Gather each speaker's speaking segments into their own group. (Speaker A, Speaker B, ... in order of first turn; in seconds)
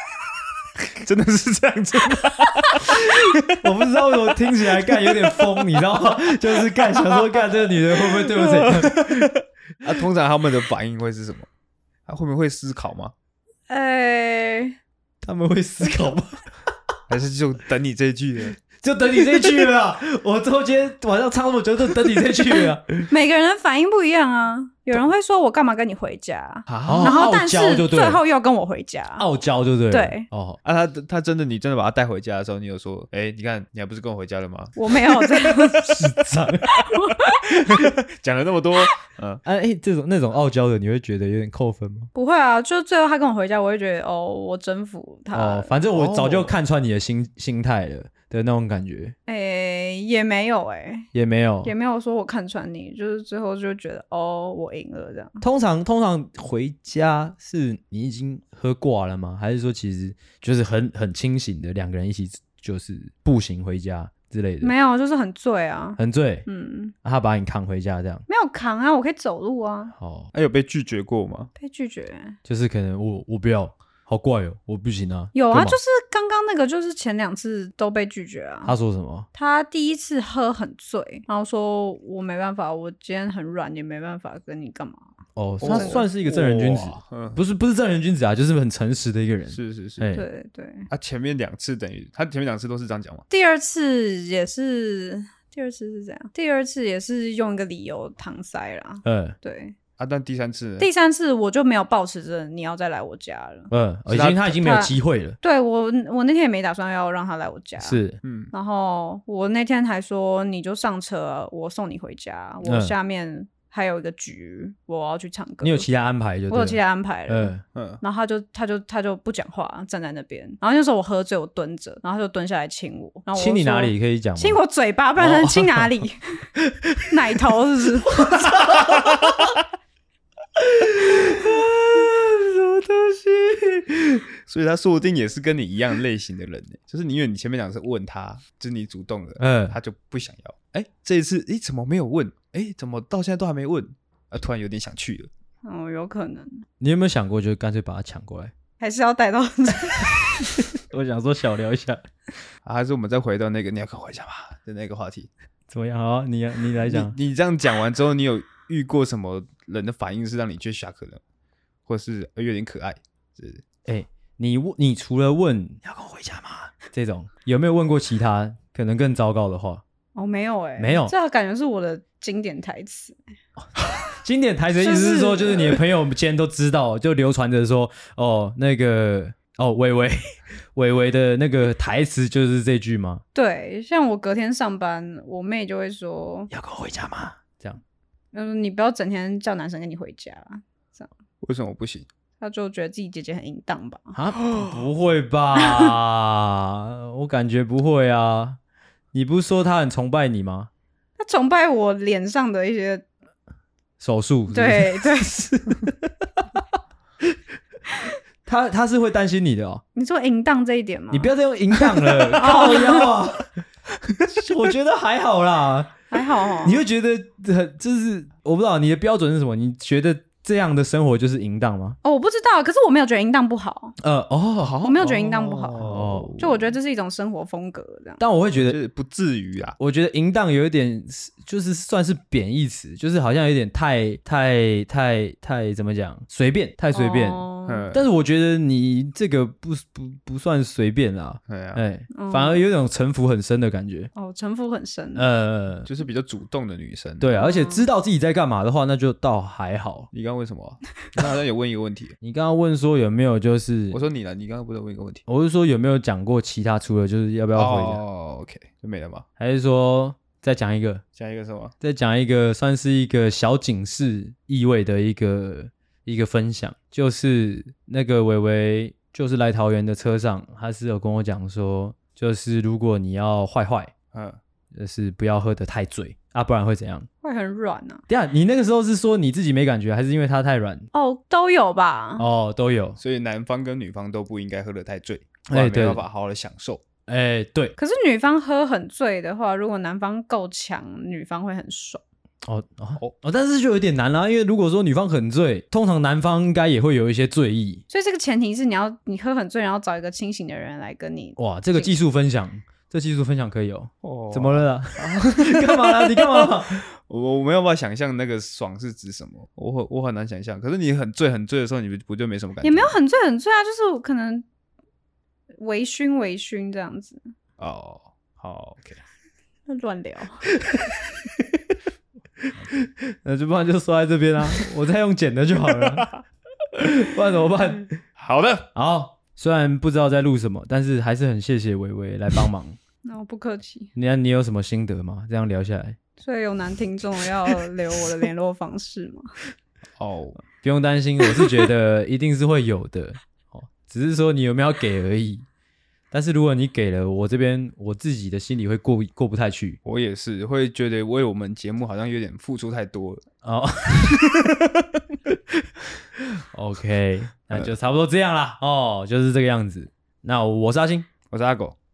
Speaker A: 0.9-3.7, 4.9-5.5, 7.0-7.4, 8.2-11.5, 12.1-13.1, 17.1-18.6, 26.7-27.2, 30.6-35.8, 37.7-39.4, 45.9-46.5, 70.3-71.5, 85.6-87.4, 89.5-90.0, 90.9-93.2, 100.0-100.9, 104.1-104.6, 108.2-108.5, 117.7-118.0, 128.5-129.3, 134.4-145.3, 152.6-155.3, 156.9-161.2, 161.8-163.6, 191.4-192.1, 212.2-212.5, 224.6-226.7, 228.5-229.8, 237.7-238.0, 241.5-241.8, 245.8-247.3, 250.1-252.2, 253.9-255.2, 257.6-259.2, 261.1-261.7, 274.1-274.4, 283.0-286.8, 304.0-312.9, 317.6-319.0, 325.7-326.1, 328.2-328.7, 340.0-340.4, 349.8-353.2, 361.3-361.7
Speaker B: 3.5-9.3, 15.2-16.4, 18.8-23.1, 26.9-28.2, 29.2-30.6, 35.8-36.8, 37.6-37.9, 39.4-42.1, 45.3-49.1, 51.1-51.7, 55.4-64.7, 66.0-66.5, 67.0-68.2, 70.0-70.3, 72.4-75.8, 78.6-79.3, 85.3-90.2, 99.0-99.3, 103.7-105.4, 107.8-108.2, 112.6-112.9, 115.6-117.6, 123.3-124.6, 125.2-125.8, 126.6-127.1, 128.1-129.5, 130.6-134.2, 139.4-139.8, 146.8-148.5, 150.6-152.0, 155.7-157.1, 163.8-169.8, 170.8-171.1, 173.6-183.2, 186.5-187.8, 194.2-198.6, 199.1-200.7, 204.0-206.6, 208.4-209.8, 211.1-213.5, 214.3-216.0, 216.6-222.0, 224.0-224.8, 225.8-226.3, 228.2-228.8, 229.8-244.1, 245.1-245.9, 247.2-250.1, 252.2-254.0, 255.3-258.0, 259.4-261.0, 261.8-273.9, 274.7-277.1, 278.1-280.9, 282.2-283.0, 285.5-286.0, 287.1-287.7, 292.4-297.8, 301.4-306.8, 320.6-321.6, 322.4-326.2, 326.7-328.0, 328.7-332.8, 333.9-336.0, 340.6-345.4, 346.1-349.8, 353.4-354.5, 356.4-361.1
Speaker C: 13.7-14.8, 23.1-29.3, 29.9-30.3, 34.8-35.9, 36.9-37.4, 42.1-45.7, 49.3-51.1, 51.6-55.4, 64.6-66.9, 68.3-69.9, 71.6-72.4, 75.3-78.7, 79.3-85.0, 85.6-86.0, 90.1-90.9, 93.3-99.7, 100.8-103.7, 104.6-108.0, 108.5-115.9, 116.5-117.5, 118.0-126.5, 127.0-128.3, 145.6-146.6, 148.8-150.6, 170.2-173.2, 174.8-175.8, 183.3-186.5, 188.3-191.1, 192.4-194.1, 195.6-195.9, 201.2-203.0, 204.5-205.4, 209.9-211.3, 212.4-213.2, 216.1-216.8, 222.0-223.9, 224.8-228.2, 236.9-237.9, 242.1-242.6, 244.1-245.2, 247.3-247.8, 277.2-278.0, 280.9-282.3, 287.8-292.0, 297.9-301.9, 312.6-314.4, 315.6-317.2, 319.7-320.4, 333.0-333.9, 336.2-339.3